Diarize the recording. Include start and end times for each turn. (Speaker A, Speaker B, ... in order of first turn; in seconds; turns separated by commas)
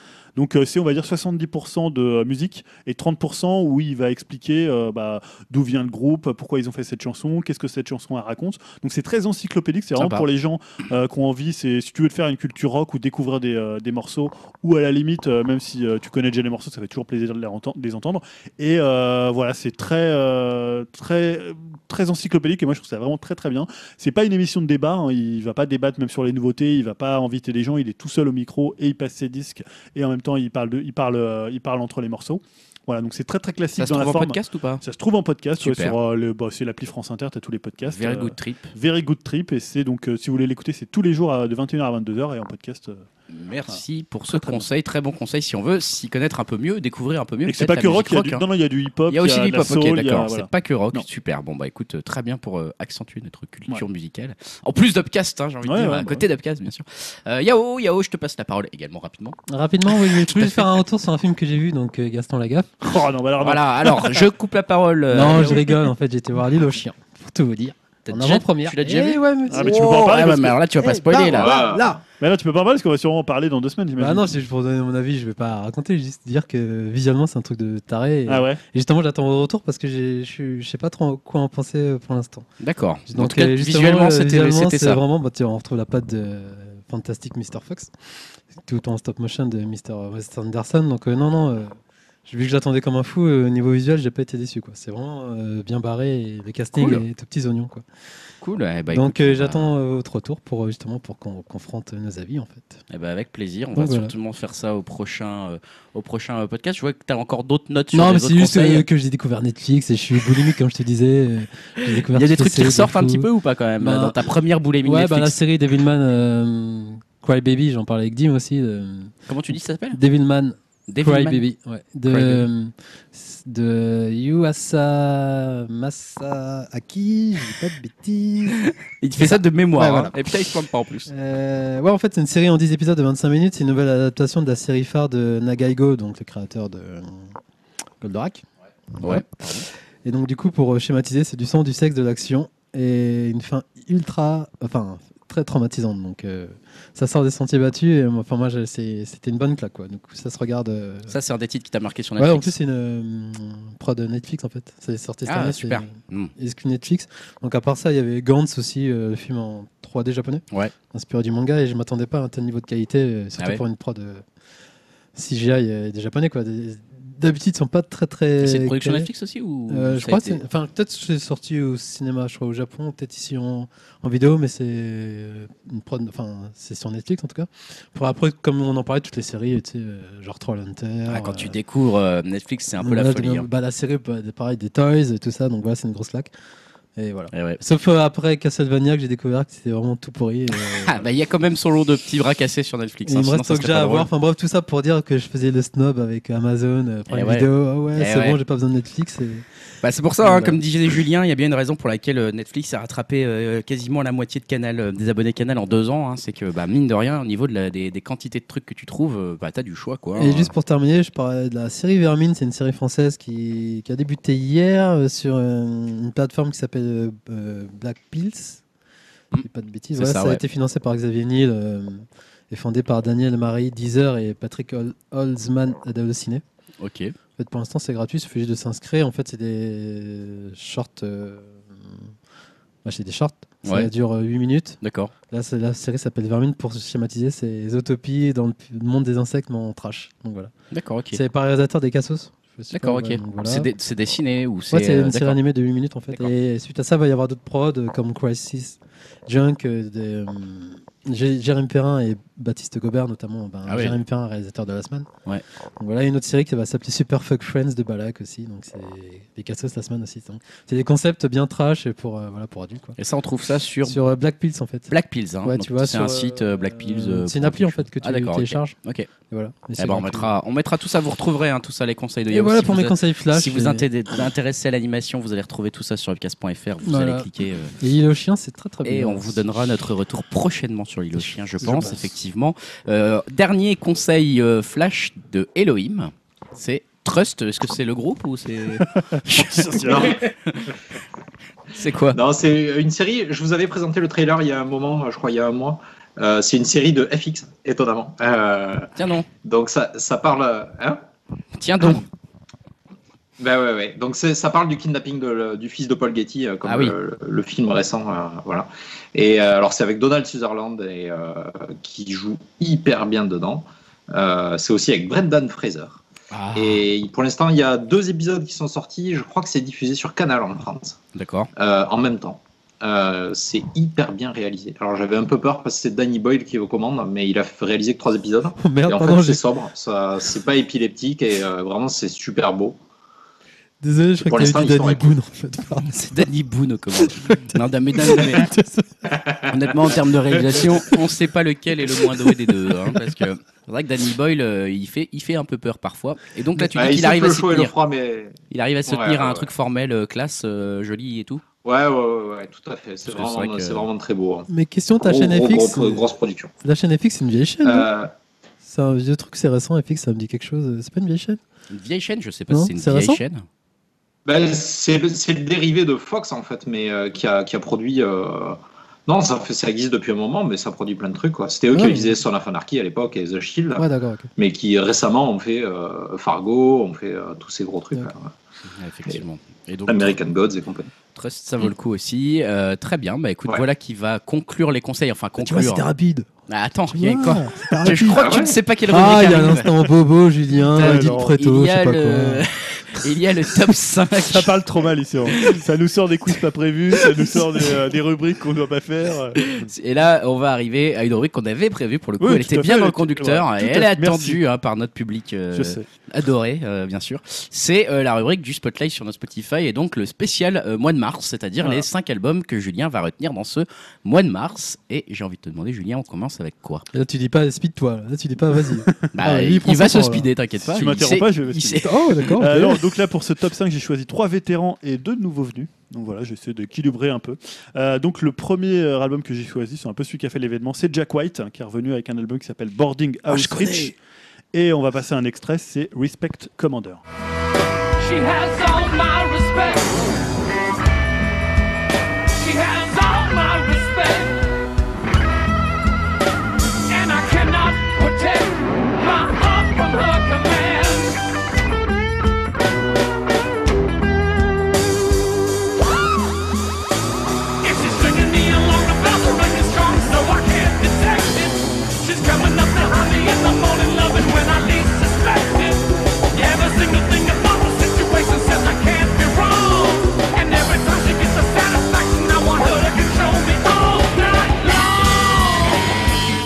Speaker A: 0.3-43.0, Speaker B: 9.9-10.3, Speaker B: 33.8-34.8, Speaker B: 35.6-36.0, Speaker B: 37.8-38.7, Speaker B: 43.3-48.4, Speaker A: 43.7-44.6, Speaker A: 47.5-51.0, Speaker B: 49.1-59.4, Speaker A: 55.6-56.2, Speaker C: 59.5-62.7, Speaker B: 60.0-60.6, Speaker A: 62.8-64.3, Speaker B: 63.4-65.7, Speaker C: 65.1-70.1, Speaker B: 68.0-71.6, Speaker A: 69.5-70.6, Speaker C: 70.8-72.0, Speaker D: 71.4-72.0, Speaker A: 72.2-74.3, Speaker C: 74.0-82.5, Speaker A: 78.3-78.6, Speaker B: 82.6-85.0, Speaker C: 83.1-87.9, Speaker C: 88.5-97.8, Speaker B: 96.8-97.0, Speaker B: 98.4-99.7, Speaker C: 98.9-102.8, Speaker B: 102.9-108.9, Speaker C: 103.7-104.1, Speaker C: 107.9-114.2, Speaker B: 111.8-115.4, Speaker C: 114.8-119.1, Speaker B: 119.3-120.0, Speaker C: 119.9-128.6, Speaker B: 120.9-121.4, Speaker B: 122.1-122.5, Speaker B: 129.0-131.1, Speaker C: 129.2-130.2, Speaker C: 131.1-137.3, Speaker C: 138.0-138.4, Speaker C: 139.0-139.3, Speaker B: 139.0-139.7, Speaker C: 140.0-151.1, Speaker B: 151.1-152.5, Speaker C: 152.2-164.2, Speaker B: 155.2-156.3, Speaker C: 165.1-169.1, Speaker B: 168.4-170.4, Speaker C: 169.7-181.6, Speaker B: 181.1-183.5, Speaker C: 182.8-186.3, Speaker C: 186.9-191.0, Speaker B: 187.3-187.6, Speaker B: 190.8-194.1, Speaker C: 193.0-199.4, Speaker B: 197.1-198.4, Speaker B: 199.8-210.5, Speaker C: 200.2-200.6, Speaker C: 210.2-218.6, Speaker B: 219.3-220.4, Speaker C: 219.4-226.4, Speaker B: 226.8-227.1, Speaker C: 227.4-232.1, Speaker C: 232.8-234.8, Speaker B: 233.6-233.9, Speaker B: 234.8-235.1, Speaker C: 235.3-240.5, Speaker B: 240.7-241.2, Speaker C: 241.1-243.7, Speaker B: 242.7-245.4, Speaker C: 244.7-255.1, Speaker B: 253.7-254.0, Speaker C: 255.8-263.0, Speaker B: 263.0-264.0, Speaker C: 263.8-268.8, Speaker B: 264.9-269.1, Speaker C: 269.3-270.3, Speaker B: 269.8-277.7, Speaker C: 272.3-273.9, Speaker C: 276.8-277.3, Speaker C: 277.8-279.4, Speaker B: 278.8-290.8, Speaker A: 281.6-282.1, Speaker A: 288.9-290.2, Speaker D: 289.8-290.2, Speaker B: 291.7-292.2, Speaker D: 292.1-298.9, Speaker B: 298.9-299.3, Speaker D: 299.4-301.0, Speaker B: 301.6-302.1, Speaker D: 303.4-316.0, Speaker B: 306.6-306.9, Speaker B: 316.3-316.8, Speaker D: 316.5-321.0, Speaker B: 321.1-321.5, Speaker D: 321.6-332.8, Speaker C: 328.6-329.4, Speaker C: 333.8-336.2, Speaker D: 334.2-335.1, Speaker B: 335.9-338.5, Speaker C: 337.2-338.9, Speaker D: 339.1-339.4, Speaker B: 339.5-347.7, Speaker D: 346.7-348.4, Speaker B: 348.5-351.4, Speaker D: 348.9-349.5, Speaker D: 351.6-354.5, Speaker B: 353.1-353.9, Speaker C: 354.5-356.1, Speaker D: 355.0-356.5, Speaker C: 356.6-357.9, Speaker D: 357.6-358.1, Speaker C: 358.6-361.4, Speaker B: 361.7-363.4, Speaker C: 362.5-363.2, Speaker D: 364.2-373.9, Speaker C: 371.7-372.2, Speaker C: 373.8-374.3, Speaker D: 374.4-378.3, Speaker B: 378.6-380.2, Speaker D: 379.9-380.9, Speaker B: 381.1-385.9, Speaker C: 385.4-386.3, Speaker B: 386.5-389.9, Speaker C: 386.9-388.2, Speaker D: 388.1-388.6, Speaker C: 388.9-392.4, Speaker B: 390.7-394.5, Speaker A: 390.8-391.3, Speaker A: 394.2-399.6, Speaker B: 395.3-395.6, Speaker B: 397.0-397.4, Speaker B: 399.4-416.8, Speaker A: 402.2-404.4, Speaker A: 405.5-405.9, Speaker C: 416.9-420.3, Speaker B: 419.1-422.4, Speaker A: 420.6-421.8, Speaker C: 421.7-422.9, Speaker A: 422.3-433.9, Speaker B: 433.3-433.9, Speaker A: 434.5-437.0, Speaker E: 438.0-440.1, Speaker E: 442.3-444.4, Speaker E: 446.9-451.2, Speaker E: 457.6-475.8